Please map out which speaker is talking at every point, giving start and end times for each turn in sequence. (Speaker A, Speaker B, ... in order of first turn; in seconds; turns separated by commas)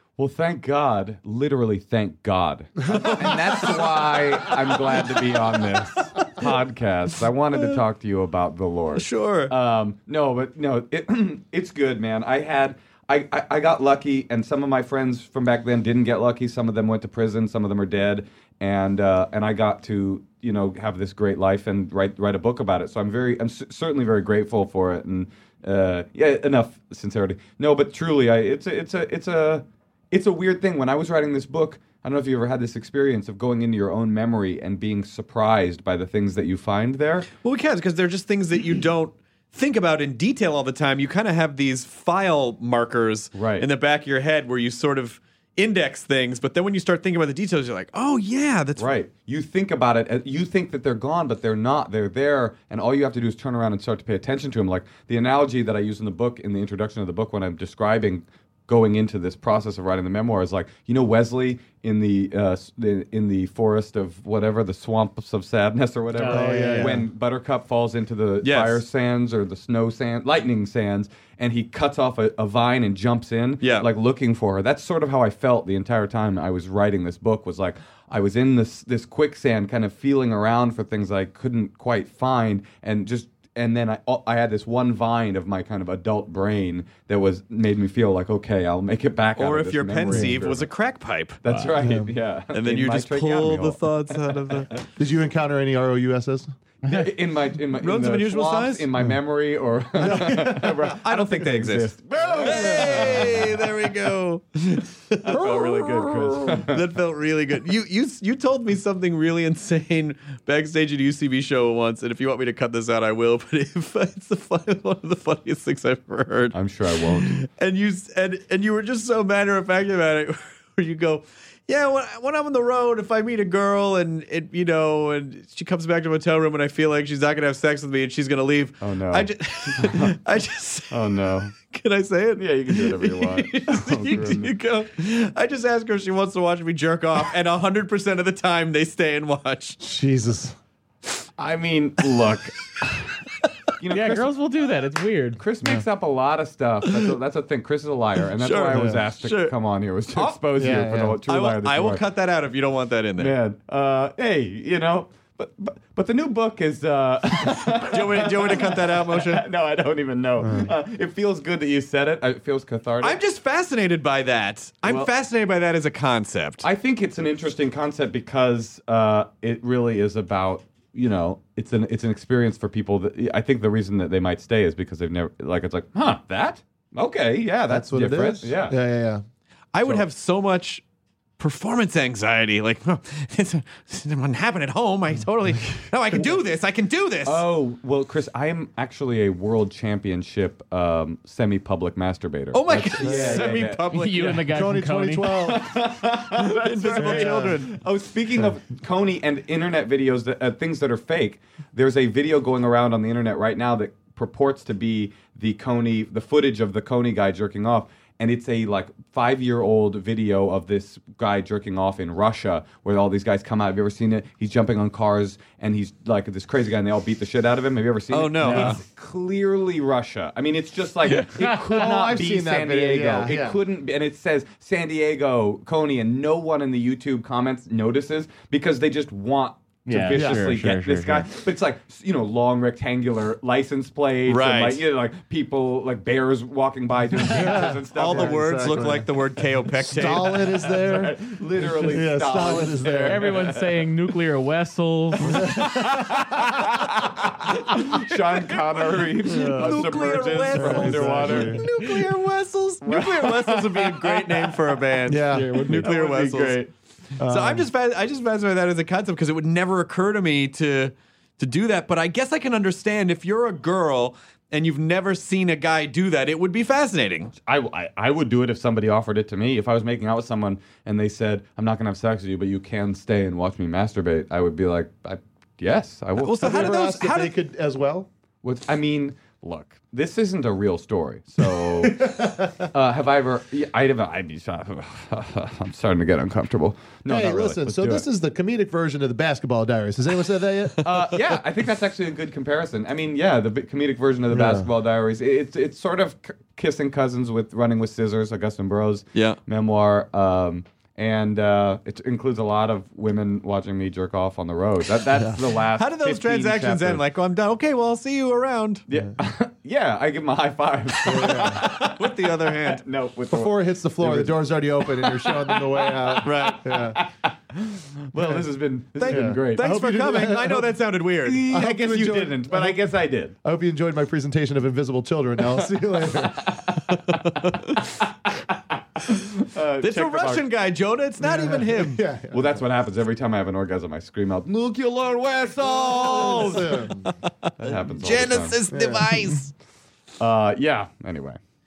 Speaker A: 0.2-37.3, Speaker B: 2.9-6.5, Speaker B: 8.9-9.5, Speaker B: 37.4-48.9, Speaker A: 43.3-43.7, Speaker A: 48.8-90.7, Speaker C: 66.1-67.0, Speaker D: 66.2-67.0, Speaker B: 68.4-68.8, Speaker B: 73.6-73.9, Speaker B: 89.4-91.4, Speaker D: 90.1-90.3, Speaker A: 91.4-94.6, Speaker D: 91.8-92.1, Speaker B: 92.5-94.8, Speaker D: 95.0-96.5, Speaker A: 96.8-103.6, Speaker B: 97.8-98.9, Speaker D: 100.0-100.9, Speaker B: 101.0-139.8, Speaker D: 102.5-103.4, Speaker A: 105.2-106.9, Speaker D: 105.3-105.8, Speaker A: 116.5-117.4, Speaker A: 128.8-130.2, Speaker A: 130.9-131.5, Speaker A: 132.4-134.5, Speaker D: 139.8-140.6, Speaker A: 141.4-143.2, Speaker A: 143.8-144.3, Speaker C: 143.9-145.4, Speaker A: 145.4-152.0, Speaker B: 146.9-147.2, Speaker B: 148.4-149.6, Speaker D: 148.7-149.0, Speaker B: 150.1-150.7, Speaker D: 150.6-151.2, Speaker B: 151.2-153.4, Speaker A: 153.2-163.2, Speaker B: 157.9-159.5, Speaker D: 160.4-160.7, Speaker B: 163.0-166.7, Speaker A: 164.8-165.1, Speaker A: 166.6-178.8, Speaker D: 177.7-179.2, Speaker B: 179.7-180.8, Speaker B: 181.4-187.5, Speaker A: 187.2-193.9, Speaker B: 192.5-194.5, Speaker D: 193.0-193.5, Speaker C: 193.9-195.3, Speaker D: 194.5-195.7, Speaker A: 195.4-239.0, Speaker B: 196.6-197.8, Speaker D: 196.9-197.6, Speaker B: 218.1-218.8, Speaker D: 218.5-218.7, Speaker D: 221.4-223.6, Speaker C: 229.9-231.3, Speaker D: 230.1-230.5, Speaker B: 234.3-234.8, Speaker D: 237.3-239.1, Speaker B: 237.9-240.4, Speaker D: 239.8-243.3, Speaker A: 240.4-244.1, Speaker C: 243.1-245.6, Speaker D: 245.3-245.9, Speaker A: 245.3-251.6, Speaker B: 249.2-256.7, Speaker D: 249.3-249.9, Speaker D: 250.5-251.6, Speaker A: 252.8-254.6, Speaker D: 255.1-255.8, Speaker C: 255.3-255.7, Speaker A: 255.4-256.7, Speaker D: 257.2-257.7, Speaker B: 257.3-267.3, Speaker A: 267.4-276.8, Speaker B: 276.2-277.3, Speaker D: 276.4-278.1, Speaker A: 278.4-288.1, Speaker D: 281.8-282.4, Speaker D: 287.1-290.8, Speaker A: 290.8-307.0, Speaker D: 294.3-294.7, Speaker B: 305.7-308.8, Speaker A: 308.9-314.4, Speaker B: 311.0-312.8, Speaker D: 311.1-311.7, Speaker D: 313.3-317.0, Speaker B: 316.2-316.6, Speaker A: 316.9-319.8, Speaker D: 318.2-318.4, Speaker B: 318.9-321.5, Speaker D: 319.1-320.7, Speaker A: 321.2-323.3, Speaker D: 321.4-322.8, Speaker D: 323.4-326.4, Speaker A: 329.0-330.5, Speaker B: 329.8-332.0, Speaker D: 331.2-332.6, Speaker A: 332.3-336.6, Speaker B: 335.6-339.5, Speaker D: 336.0-337.1, Speaker A: 337.6-338.6, Speaker D: 338.7-339.3, Speaker A: 340.2-341.4